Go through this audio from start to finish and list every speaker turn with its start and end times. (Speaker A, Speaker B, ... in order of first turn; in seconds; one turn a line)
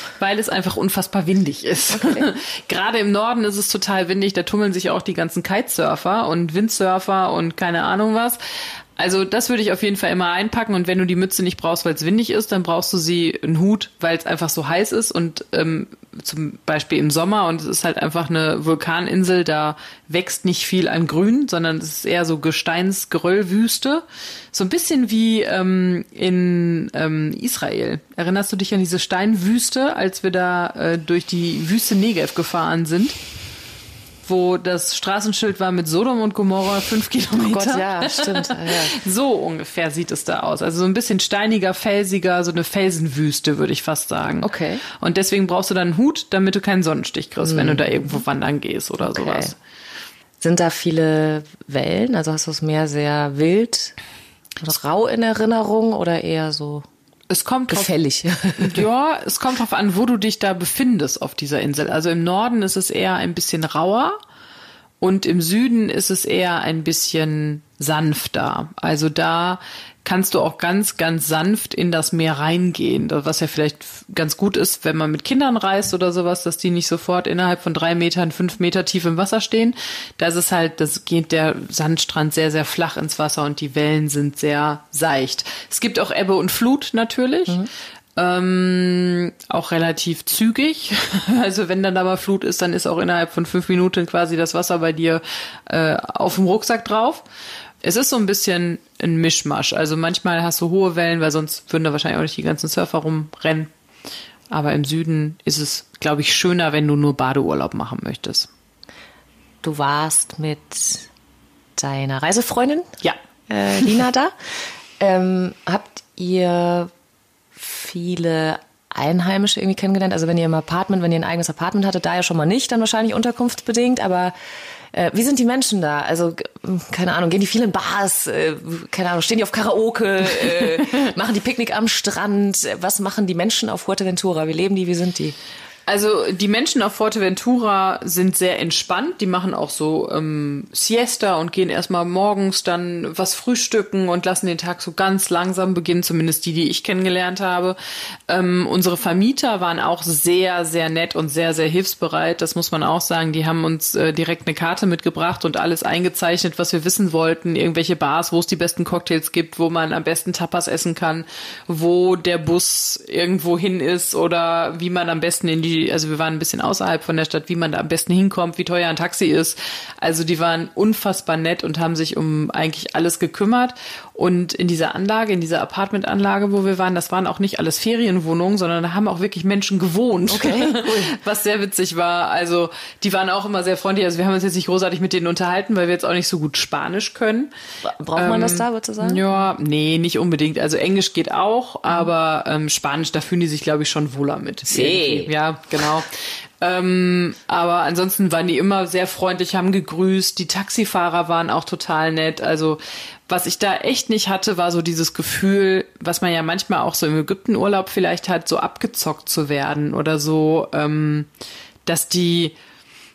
Speaker A: 0.2-8.4
Speaker B: 1.9-2.3
Speaker A: 9.0-33.2
Speaker A: 34.2-49.5
Speaker B: 37.4-38.9
Speaker B: 44.4-44.8
Speaker B: 47.4-47.9
Speaker B: 49.0-49.5
Speaker B: 50.4-54.0
Speaker B: 54.6-56.8
Speaker A: 57.3-57.9
Speaker B: 57.7-58.8
Speaker A: 58.6-64.2
Speaker A: 65.0-97.2
Speaker A: 97.8-103.7
Speaker A: 104.5-108.5
Speaker B: 109.6-111.1
Speaker B: 111.8-112.9
Speaker B: 113.5-114.3
Speaker B: 115.0-116.9
Speaker B: 117.5-124.3
Speaker B: 124.9-135.3
Speaker A: 130.4-130.8
Speaker A: 135.8-147.8
Speaker A: 148.3-187.5
Speaker B: 180.3-181.1
Speaker B: 187.8-189.4
Speaker A: 188.2-211.3
Speaker B: 194.6-195.3
Speaker A: 211.8-212.6